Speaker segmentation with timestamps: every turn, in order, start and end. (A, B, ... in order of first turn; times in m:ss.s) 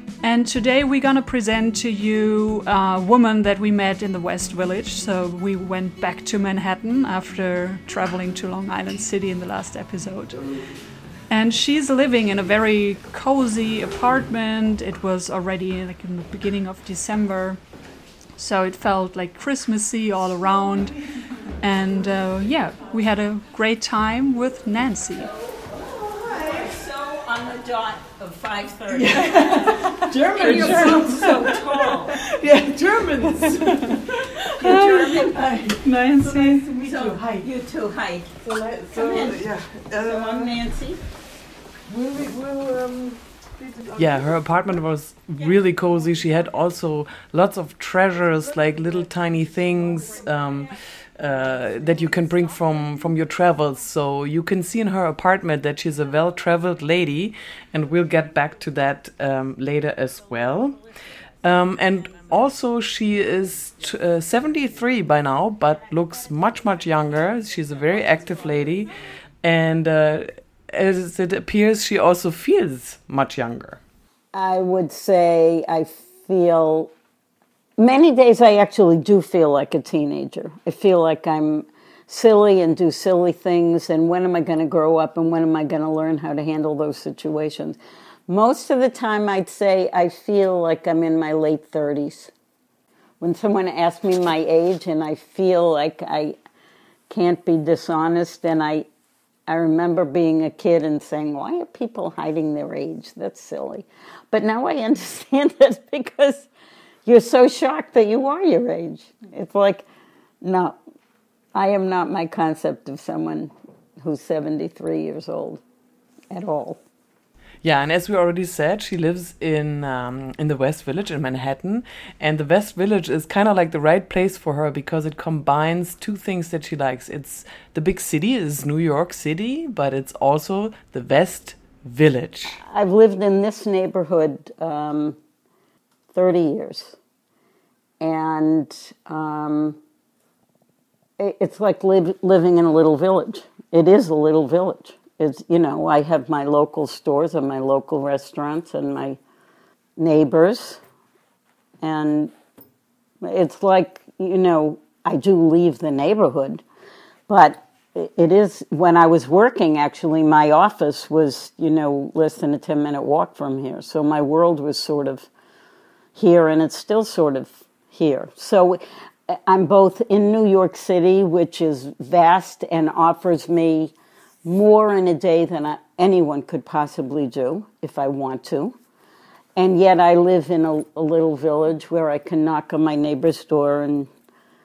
0:00.2-0:10.6 A
0:11.3-0:17.6 A
0:18.4-0:21.0 A
0:21.6-0:25.3 A
0:25.4-0:32.2 B
0:28.9-0:31.7 C
0:30.4-0:31.2 A
0:32.3-0:37.2 C
0:34.6-0:35.6 B
0:34.6-0:36.7 A
0:36.5-0:41.0 B
0:38.8-0:40.6 C
0:38.8-0:39.3 D
0:41.9-0:44.6 C
0:43.9-1:13.8 D
0:49.6-0:49.9 C
1:14.3-1:16.9 B
1:17.8-1:32.3 B
1:33.2-1:36.4 B
1:37.1-1:38.9 B
1:39.5-1:46.5 B
1:47.0-1:49.8 B
1:50.4-1:50.8 B
1:51.5-1:55.6 B
1:56.3-1:56.8 B
1:57.6-2:12.6 D
2:12.6-2:15.2 B
2:16.1-2:17.0 B
2:18.0-2:19.8 B
2:21.2-2:29.2 B
2:30.0-2:30.8 B
2:31.8-2:32.3 B
2:33.2-2:36.6 B
2:37.3-2:45.3 B
2:46.1-2:53.9 B
2:54.4-2:58.8 B
2:59.6-3:04.1 B